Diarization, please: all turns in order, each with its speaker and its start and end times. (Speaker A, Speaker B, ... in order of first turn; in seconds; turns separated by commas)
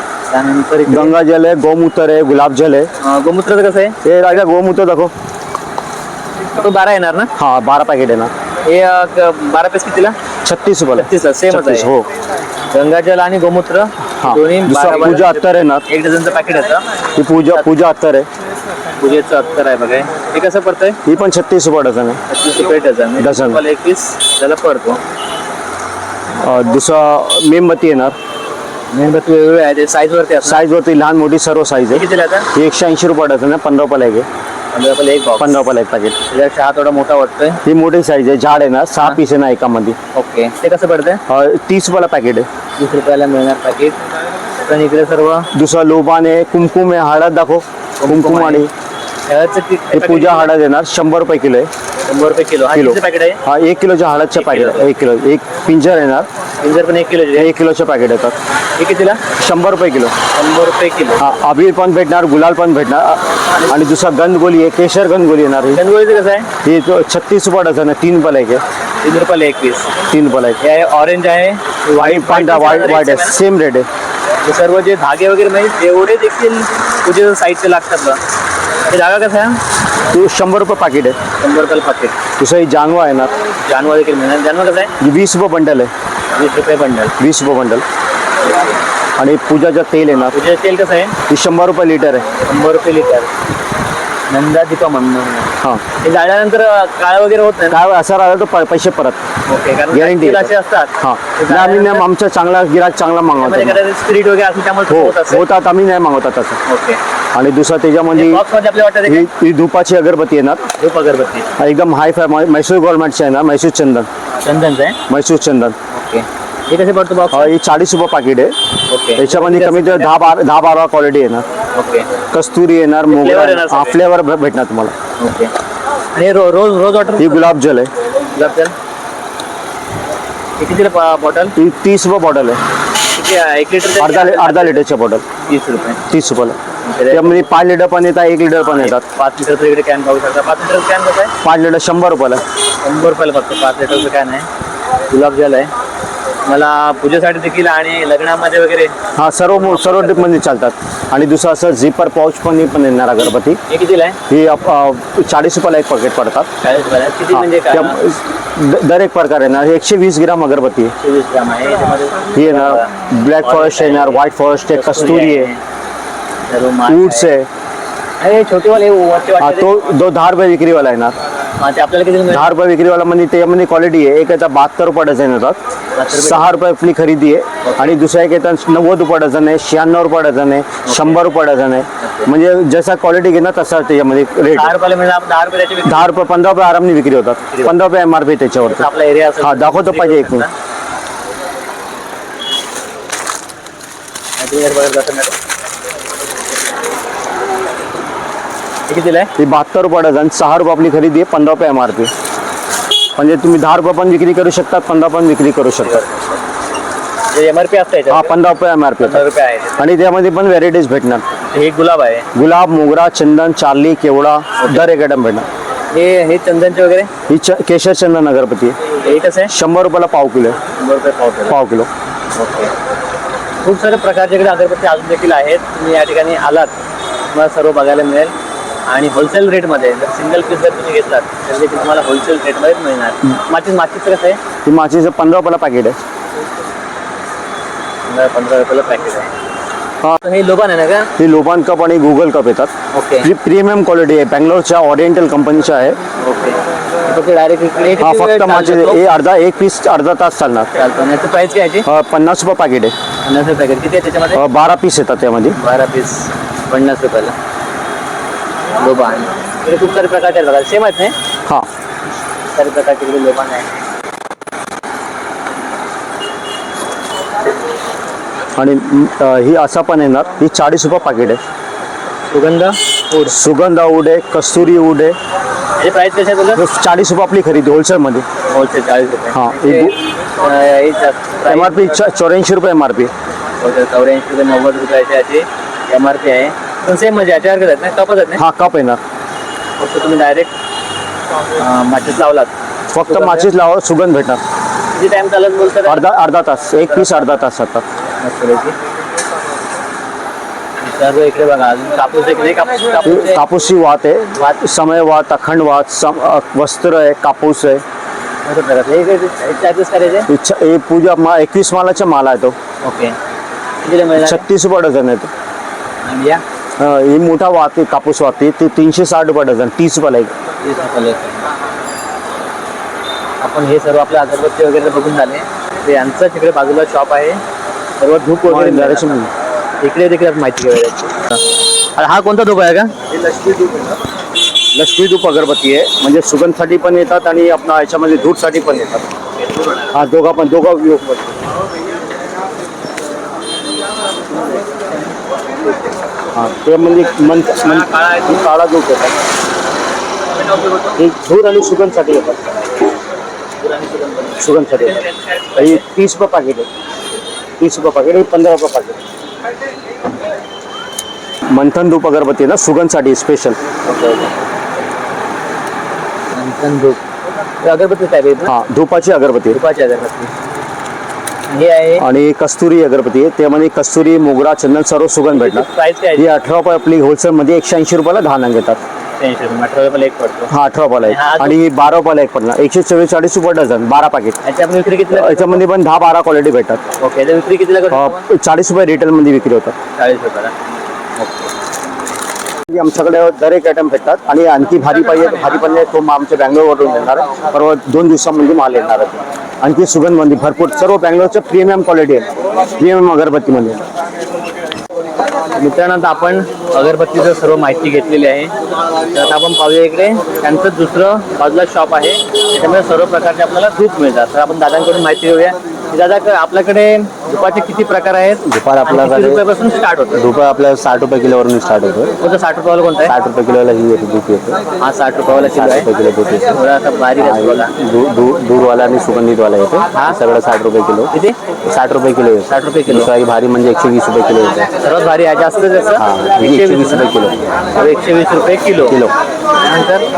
Speaker A: 0.3-1.1, Speaker B: 0.9-2.9, Speaker A: 3.0-4.0, Speaker B: 4.0-5.1, Speaker A: 6.6-7.3, Speaker B: 7.4-8.3, Speaker A: 8.7-10.2, Speaker B: 10.4-12.1, Speaker A: 11.0-11.9, Speaker A: 12.7-16.9, Speaker B: 14.2-15.8, Speaker B: 17.2-18.3, Speaker A: 19.0-21.0, Speaker B: 21.1-22.2, Speaker A: 22.3-25.0, Speaker B: 23.2-23.6, Speaker B: 26.4-28.1, Speaker A: 28.9-30.6, Speaker B: 30.4-34.3, Speaker A: 31.9-32.5, Speaker A: 34.7-35.6, Speaker B: 35.4-36.2, Speaker A: 36.3-37.6, Speaker B: 37.6-40.0, Speaker A: 40.1-41.2, Speaker B: 41.3-42.5, Speaker A: 42.8-44.0, Speaker A: 44.7-45.5, Speaker B: 45.5-48.7, Speaker A: 48.0-48.7, Speaker A: 49.3-50.5, Speaker B: 49.9-51.7, Speaker A: 52.1-53.4, Speaker B: 52.7-56.3, Speaker A: 54.4-54.9, Speaker A: 56.6-57.5, Speaker B: 57.4-58.4, Speaker A: 58.8-59.2, Speaker B: 59.4-60.1, Speaker A: 60.3-61.2, Speaker B: 61.2-65.8, Speaker A: 65.8-66.5, Speaker B: 66.6-68.6, Speaker A: 69.0-69.9, Speaker B: 70.1-70.6, Speaker A: 70.6-73.4, Speaker B: 72.0-73.9, Speaker A: 74.4-78.2, Speaker A: 78.9-79.6, Speaker B: 80.1-81.2, Speaker A: 81.4-82.2, Speaker B: 82.4-83.3, Speaker A: 83.7-84.9, Speaker B: 85.0-85.9, Speaker A: 86.3-87.2, Speaker B: 87.2-87.8, Speaker A: 88.5-88.7, Speaker B: 89.2-90.4, Speaker A: 90.3-91.2, Speaker B: 91.3-92.3, Speaker A: 92.4-93.3, Speaker A: 94.3-97.8, Speaker B: 97.7-99.2, Speaker A: 99.5-102.0, Speaker B: 99.9-103.8, Speaker A: 103.4-105.4, Speaker B: 104.9-106.6, Speaker A: 106.7-107.0, Speaker B: 107.3-108.4, Speaker A: 108.2-109.3, Speaker B: 109.1-110.6, Speaker A: 110.8-111.5, Speaker B: 111.6-114.1, Speaker A: 114.4-115.0, Speaker B: 115.1-115.8, Speaker A: 115.9-117.5, Speaker B: 117.3-118.5, Speaker A: 118.9-120.3, Speaker B: 119.2-121.5, Speaker A: 121.7-122.1, Speaker B: 122.3-124.9, Speaker A: 123.1-124.0, Speaker A: 125.2-125.5, Speaker A: 126.1-127.5, Speaker B: 127.2-127.9, Speaker A: 128.3-128.7, Speaker A: 130.6-131.6, Speaker B: 131.6-132.6, Speaker A: 133.1-134.8, Speaker B: 134.0-135.2, Speaker A: 135.4-136.0, Speaker B: 136.1-136.6, Speaker A: 136.9-137.5, Speaker B: 137.1-139.1, Speaker A: 138.6-141.3, Speaker B: 141.4-142.4, Speaker A: 142.8-144.5, Speaker A: 145.1-145.7, Speaker A: 146.5-148.9, Speaker B: 149.2-153.6, Speaker A: 149.5-150.3, Speaker A: 153.7-154.2, Speaker B: 154.3-156.5, Speaker A: 156.6-158.0, Speaker B: 157.3-160.9, Speaker A: 161.0-162.9, Speaker B: 162.4-165.5, Speaker A: 163.4-164.2, Speaker A: 164.8-165.6, Speaker A: 166.5-167.3, Speaker B: 166.9-167.5, Speaker A: 168.2-169.7, Speaker B: 169.4-171.2, Speaker A: 171.6-172.5, Speaker B: 172.3-175.6, Speaker A: 176.0-176.5, Speaker B: 176.1-184.8, Speaker A: 177.7-177.9, Speaker A: 180.9-181.2, Speaker A: 182.0-182.3, Speaker A: 184.5-186.1, Speaker B: 185.8-188.9, Speaker A: 188.7-190.5, Speaker B: 189.4-190.5, Speaker A: 194.4-195.3, Speaker A: 198.9-199.3, Speaker B: 199.4-202.1, Speaker B: 203.2-206.0, Speaker A: 205.8-206.2, Speaker A: 207.3-208.3, Speaker B: 208.1-209.2, Speaker A: 209.0-209.8, Speaker B: 209.8-211.2, Speaker A: 211.5-212.3, Speaker B: 212.3-215.5, Speaker A: 215.9-217.1, Speaker B: 217.3-218.8, Speaker A: 219.0-219.5, Speaker B: 219.5-220.6, Speaker A: 220.8-221.6, Speaker B: 221.5-221.9, Speaker A: 222.3-222.7, Speaker A: 223.6-226.7, Speaker A: 227.3-228.3, Speaker A: 228.9-234.4, Speaker B: 234.7-236.0, Speaker A: 238.1-239.3, Speaker A: 240.2-241.1, Speaker B: 241.2-246.0, Speaker A: 242.9-243.3, Speaker A: 246.2-249.0, Speaker B: 248.0-250.7, Speaker A: 250.8-251.9, Speaker B: 251.8-252.9, Speaker A: 253.2-254.4, Speaker B: 254.3-255.6, Speaker A: 255.6-257.3, Speaker A: 258.8-261.1, Speaker A: 262.6-263.8, Speaker B: 268.6-271.4, Speaker A: 272.3-273.3, Speaker B: 273.3-275.2, Speaker A: 275.8-276.6, Speaker B: 276.6-278.3, Speaker A: 278.5-282.1, Speaker B: 279.3-279.9, Speaker B: 281.5-283.1, Speaker A: 283.6-288.4, Speaker B: 288.4-289.0, Speaker A: 289.8-290.5, Speaker A: 291.6-292.5, Speaker B: 292.9-294.4, Speaker A: 293.1-293.5, Speaker A: 294.9-296.1, Speaker B: 295.9-297.8, Speaker A: 296.9-297.3, Speaker A: 298.2-298.8, Speaker A: 300.8-303.4, Speaker B: 303.0-307.8, Speaker A: 308.4-310.3, Speaker B: 310.3-312.6, Speaker A: 312.8-313.2, Speaker A: 313.8-314.4, Speaker B: 314.2-315.3, Speaker A: 316.0-316.4, Speaker B: 316.8-320.3, Speaker A: 320.6-321.4, Speaker A: 323.4-327.4, Speaker A: 328.0-329.2, Speaker B: 328.5-329.3, Speaker A: 329.8-331.4, Speaker A: 332.0-332.9, Speaker B: 334.7-339.1, Speaker A: 339.4-339.9, Speaker B: 339.9-341.4, Speaker B: 346.4-349.1, Speaker A: 347.2-348.4, Speaker A: 350.4-351.0, Speaker B: 351.0-352.6, Speaker A: 353.6-355.8, Speaker B: 354.4-355.0, Speaker B: 355.6-356.7, Speaker B: 357.6-359.0, Speaker B: 361.5-363.6, Speaker A: 363.8-364.3, Speaker A: 366.3-367.0, Speaker A: 367.6-368.5, Speaker B: 368.5-369.6, Speaker A: 369.5-370.3, Speaker A: 371.5-372.1, Speaker B: 372.0-378.8, Speaker A: 375.3-376.3, Speaker A: 379.2-380.5, Speaker B: 380.5-384.4, Speaker A: 381.1-381.6, Speaker A: 384.4-385.6, Speaker B: 385.1-386.8, Speaker A: 387.0-388.2, Speaker B: 387.9-389.8, Speaker A: 390.0-390.5, Speaker A: 391.2-391.5, Speaker B: 392.7-403.8, Speaker A: 405.6-408.5, Speaker A: 409.1-420.2, Speaker C: 418.5-419.4, Speaker C: 420.1-422.1, Speaker A: 422.2-423.1, Speaker C: 423.1-424.6, Speaker A: 424.8-425.9, Speaker C: 425.3-426.6, Speaker A: 426.5-427.7, Speaker C: 427.2-431.1, Speaker C: 431.7-434.7, Speaker A: 432.5-433.1, Speaker A: 434.8-437.1, Speaker C: 436.0-437.4, Speaker A: 437.8-439.0, Speaker C: 438.9-439.1, Speaker A: 439.6-440.1